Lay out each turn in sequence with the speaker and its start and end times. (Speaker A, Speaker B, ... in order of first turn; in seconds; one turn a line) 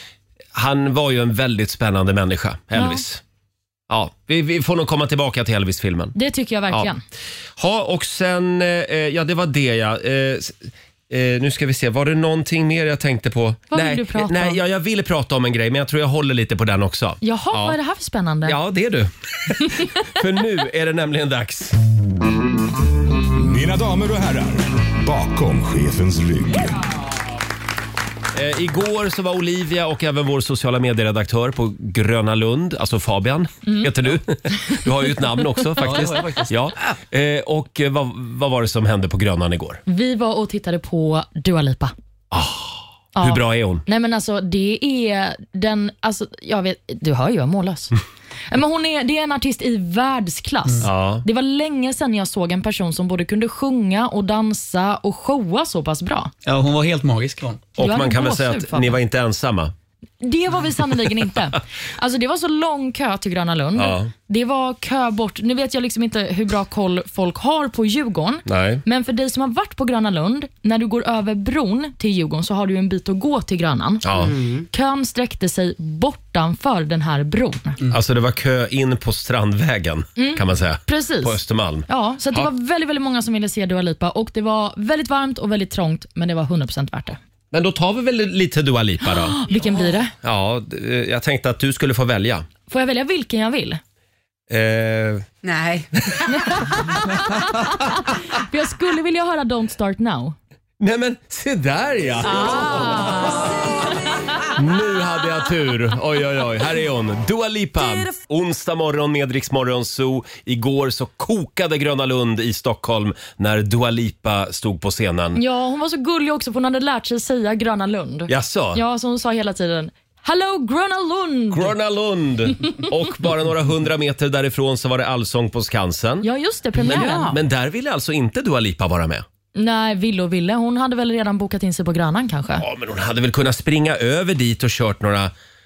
Speaker A: 0.6-3.2
Speaker B: 2.8-3.0
Speaker A: 3.9-6.2
Speaker B: 6.2-7.0
Speaker A: 7.6-17.8
Speaker B: 13.7-14.6
Speaker B: 17.2-18.6
Speaker A: 18.4-21.8
Speaker C: 23.4-26.8
Speaker A: 28.3-39.8
Speaker D: 35.8-36.5
Speaker B: 39.9-41.9
Speaker A: 42.3-43.8
Speaker B: 43.1-48.0
Speaker B: 48.5-56.3
Speaker A: 50.8-51.2
Speaker D: 56.5-57.6
Speaker A: 57.8-59.7
Speaker B: 57.8-59.0
Speaker B: 60.2-74.1
Speaker A: 63.8-64.1
Speaker A: 68.5-68.8
Speaker A: 74.0-74.3
Speaker E: 74.2-74.7
Speaker B: 74.7-77.8
Speaker A: 77.9-82.5
Speaker B: 80.2-87.2
Speaker A: 87.5-89.4
Speaker B: 89.1-90.1
Speaker A: 90.2-92.5
Speaker B: 92.7-93.8
Speaker A: 94.5-95.3
Speaker E: 95.4-96.5
Speaker B: 97.3-100.3
Speaker A: 100.8-103.6
Speaker B: 102.3-103.5
Speaker E: 102.8-103.4
Speaker A: 104.5-115.4
Speaker B: 115.3-121.7
Speaker A: 118.3-118.8
Speaker A: 121.5-126.3
Speaker B: 126.2-127.3
Speaker E: 126.8-127.4
Speaker A: 126.8-129.2
Speaker B: 129.6-132.6
Speaker A: 132.6-135.3